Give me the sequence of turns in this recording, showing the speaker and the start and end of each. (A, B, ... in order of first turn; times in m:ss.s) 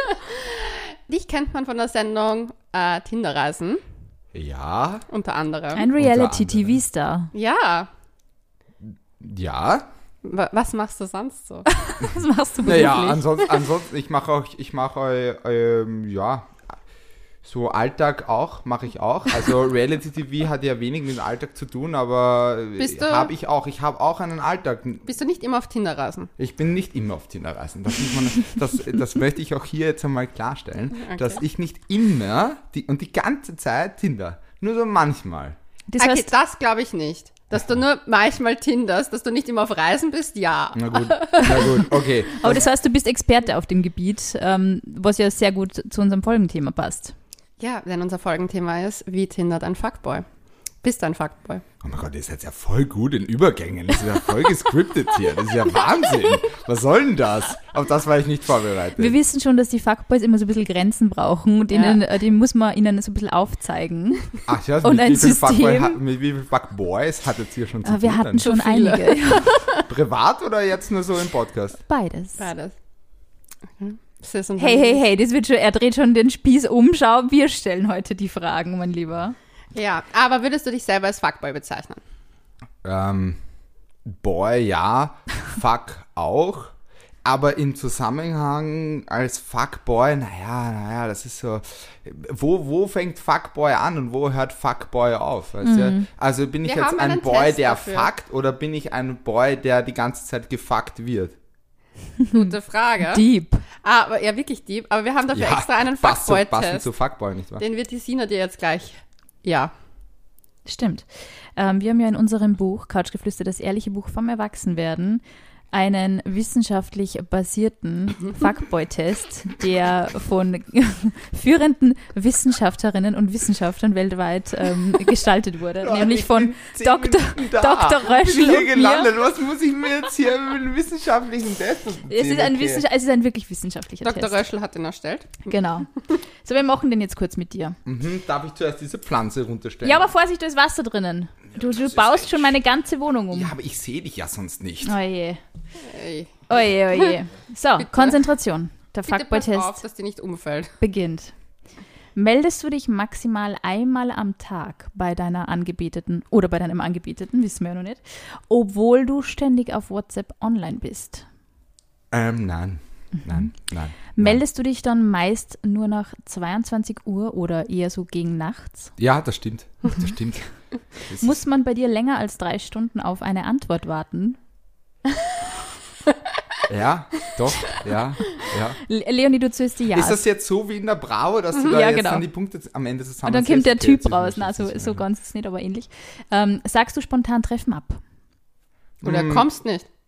0:00.1-0:03.8 A
0:04.3-0:05.1 B
0:05.1-0:05.8 A
0:05.8-0:07.3 C
0:06.0-0:06.8 B
0:07.3-0:07.9 A
0:08.8-0:09.9 B
0:10.2-0:11.7 A
0:11.7-0:13.3 C
0:12.6-0:16.6 B
0:17.4-0:25.1 B
0:22.8-0:23.3 A
0:25.1-0:26.3 A
0:26.4-0:35.6 B
0:31.0-0:31.4 A
0:35.9-0:36.3 C
0:36.0-0:41.8 A
0:40.8-0:42.7 B
0:41.4-0:47.1 C
0:47.6-0:50.2 A
0:50.8-0:51.6 A
0:51.8-0:59.2 B
0:59.0-1:06.0 C
1:01.7-1:02.0 A
1:04.5-1:08.4 B
1:07.8-1:09.6 C
1:08.4-1:09.9 A
1:09.9-1:11.8 B
1:11.9-1:12.5 C
1:12.4-1:12.7 A
1:13.8-1:15.0 A
1:14.6-1:19.4 C
1:19.7-1:22.0 A
1:22.8-1:23.4 B
1:24.1-1:41.4 B
1:35.6-1:36.1 C
1:36.6-1:38.1 A
1:42.3-1:43.3 A
1:43.1-1:43.6 C
1:43.8-1:46.9 A
1:45.3-1:47.6 B
1:47.6-1:49.7 A
1:50.7-2:09.1 C
2:05.8-2:12.8 B
2:12.1-2:14.4 C
2:14.0-2:15.5 A
2:15.4-2:17.8 C
2:17.8-2:20.1 B
2:19.8-2:23.5 C
2:21.6-2:22.6 B
2:23.3-2:25.0 B
2:24.8-2:25.4 C
2:25.8-2:27.2 A
2:26.5-2:29.8 C
2:27.8-2:28.2 A
2:29.1-2:30.7 A
2:30.8-2:31.3 C
2:32.2-2:41.2 C
2:42.1-2:44.4 B
2:43.2-2:43.5 C
2:44.2-2:48.9 C
2:49.0-2:51.4 B
2:51.1-2:54.4 C
2:56.7-2:58.8 B
2:58.9-3:00.2 C
2:59.9-3:05.0 B
3:01.7-3:02.2 C
3:03.2-3:08.0 C
3:09.0-3:09.5 B
3:09.0-3:09.9 A